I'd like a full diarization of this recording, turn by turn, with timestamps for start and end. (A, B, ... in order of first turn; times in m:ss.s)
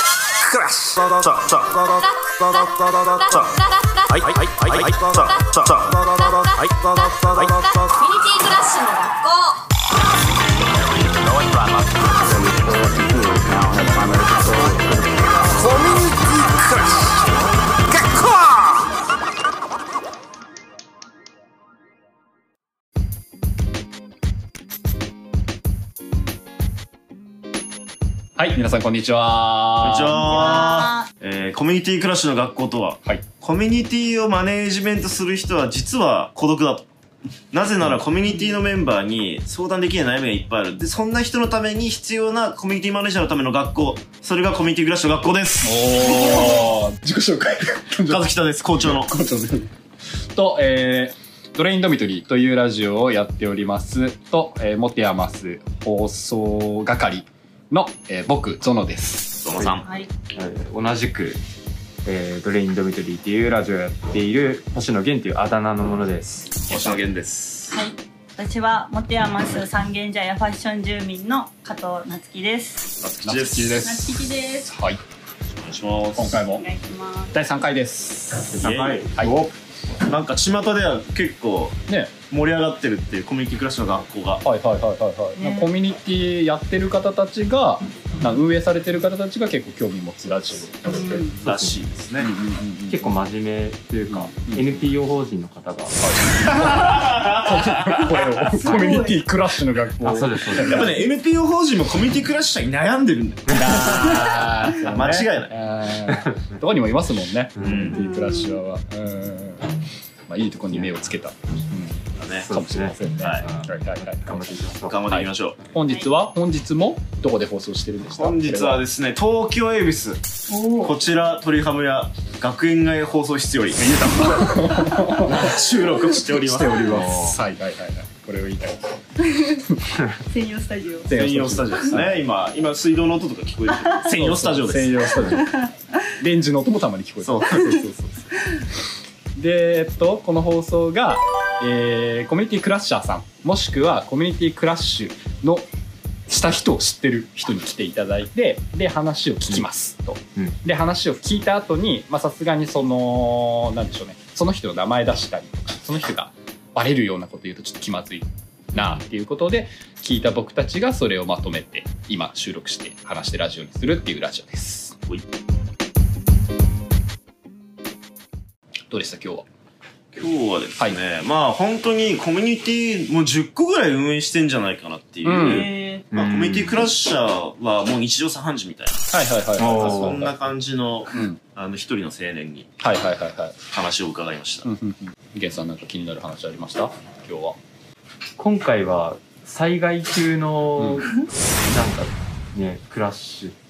0:00.5-0:03.5 A
0:02.0-0:04.2 B
0:04.1-0:07.6 A
0:05.2-0:05.6 B
0:06.1-0:09.6 B
0:12.2-0:16.9 C
0:18.0-0:18.5 C
0:28.4-0:30.4 C
0:29.8-0:36.9 A
0:30.2-0:31.1 D
0:37.5-0:46.4 A
0:45.6-0:49.7 C
0:46.0-0:46.8 D
0:48.1-0:49.1 A
0:50.3-0:59.4 C
0:59.4-0:59.9 A
0:59.6-0:59.8 E
0:59.8-1:00.1 D
1:00.3-1:01.4 E
1:02.0-1:06.7 E
1:06.7-1:07.8 A
1:06.7-1:07.0 C
1:07.7-1:12.9 D
1:13.0-1:13.8 A
1:13.2-1:15.0 C
1:13.8-1:14.7 D
1:15.6-1:16.5 A
1:16.1-1:16.6 C
1:16.5-1:17.3 D
1:17.3-1:19.5 C
1:18.5-1:19.5 E
1:18.6-1:19.1 A
1:20.0-1:24.4 A
1:21.9-1:22.1 C
1:24.4-1:31.3 C
1:25.4-1:25.7 D
1:30.9-1:31.4 D
1:31.4-1:31.8 E
1:31.4-1:32.3 A
1:32.2-1:33.2 C
1:32.9-1:36.0 E
1:34.1-1:34.7 C
1:36.0-1:40.9 C
1:36.7-1:38.1 A
1:38.5-1:39.2 D
1:38.6-1:39.0 E
1:40.0-1:41.0 E
1:40.6-1:44.1 A
1:43.5-1:44.4 E
1:43.5-1:49.8 C
1:44.8-1:45.5 A
1:46.1-1:46.4 E
1:47.6-1:47.9 E
1:47.6-1:48.0 A
1:47.9-1:48.6 D
1:50.3-1:58.8 C
1:52.1-1:52.5 A
1:52.4-1:55.1 E
1:53.2-1:53.4 A
1:54.9-1:55.6 A
1:55.8-1:56.1 D
1:58.1-2:00.2 A
2:00.5-2:01.0 D
2:00.8-2:03.9 A
2:03.8-2:05.6 C
2:04.4-2:05.2 D
2:05.2-2:07.0 A
2:06.2-2:09.0 C
2:06.8-2:07.4 E
2:09.2-2:11.1 D
2:11.1-2:12.2 C
2:11.1-2:15.2 A
2:14.1-2:18.3 C
2:15.2-2:15.8 D
2:17.2-2:17.6 A
2:19.3-2:25.7 C
2:26.3-2:45.0 C
2:48.9-2:49.5 C
2:50.1-3:02.7 A
2:55.2-2:55.7 C
2:55.3-2:56.0 D
2:56.1-2:56.9 E
2:59.1-3:00.3 C
2:59.6-3:00.2 E
3:01.1-3:01.4 C
3:02.8-3:03.6 C
3:03.7-3:04.7 A
3:04.6-3:07.6 C
3:08.4-3:13.6 E
3:10.8-3:11.1 C